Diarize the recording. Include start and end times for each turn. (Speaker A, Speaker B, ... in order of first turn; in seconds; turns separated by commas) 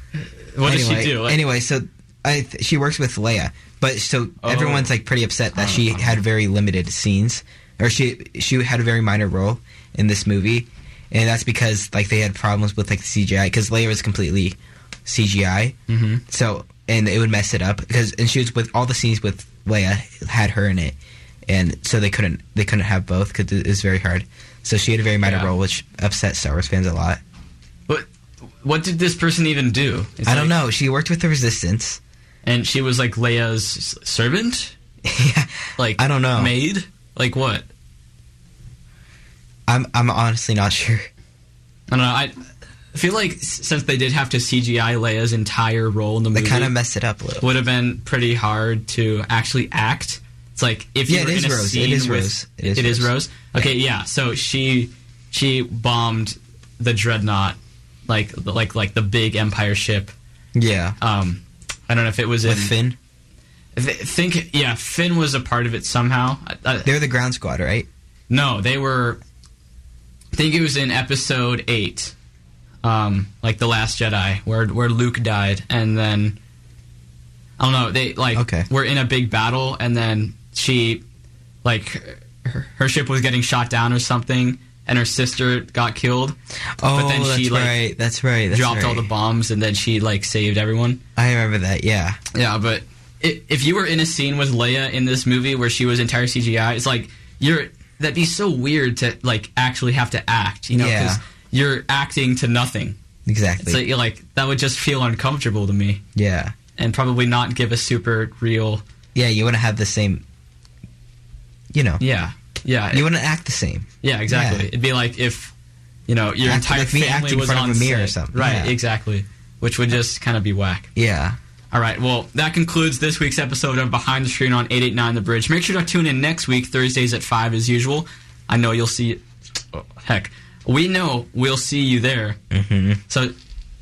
Speaker A: 0.2-1.4, Speaker B: 0.6-15.8, Speaker A: 4.4-4.9, Speaker A: 5.6-6.1, Speaker A: 15.9-16.2, Speaker B: 16.3-21.0, Speaker B: 21.5-27.2, Speaker A: 25.2-25.5, Speaker A: 28.6-30.6, Speaker B: 30.3-32.0, Speaker A: 32.5-34.8, Speaker B: 35.0-36.6, Speaker A: 35.8-37.7, Speaker B: 39.7-41.1, Speaker A: 41.9-42.3, Speaker A: 42.9-46.7, Speaker B: 46.3-47.5, Speaker A: 47.4-57.6, Speaker B: 51.1-53.7, Speaker A: 58.1-60.1, Speaker B: 60.5-61.0, Speaker A: 61.0-62.7, Speaker B: 62.5-63.0, Speaker A: 63.8-66.9, Speaker B: 66.8-67.9, Speaker A: 68.3-69.2, Speaker A: 70.3-72.1, Speaker A: 72.8-76.4, Speaker A: 77.6-81.0, Speaker B: 78.3-78.7, Speaker A: 81.6-86.4, Speaker B: 86.8-89.1, Speaker A: 86.9-87.8, Speaker A: 88.5-91.0, Speaker B: 91.2-92.2, Speaker A: 92.3-103.0, Speaker B: 100.8-101.2, Speaker B: 103.3-103.8, Speaker A: 103.6-106.0, Speaker B: 106.2-106.5, Speaker A: 106.8-108.8, Speaker B: 109.2-110.2, Speaker B: 111.7-112.0, Speaker A: 112.0-113.1, Speaker B: 112.9-114.7, Speaker A: 114.0-115.5, Speaker A: 116.1-120.9, Speaker B: 116.4-118.8, Speaker B: 121.0-121.4, Speaker A: 121.7-129.2, Speaker A: 129.7-132.4, Speaker B: 132.5-133.0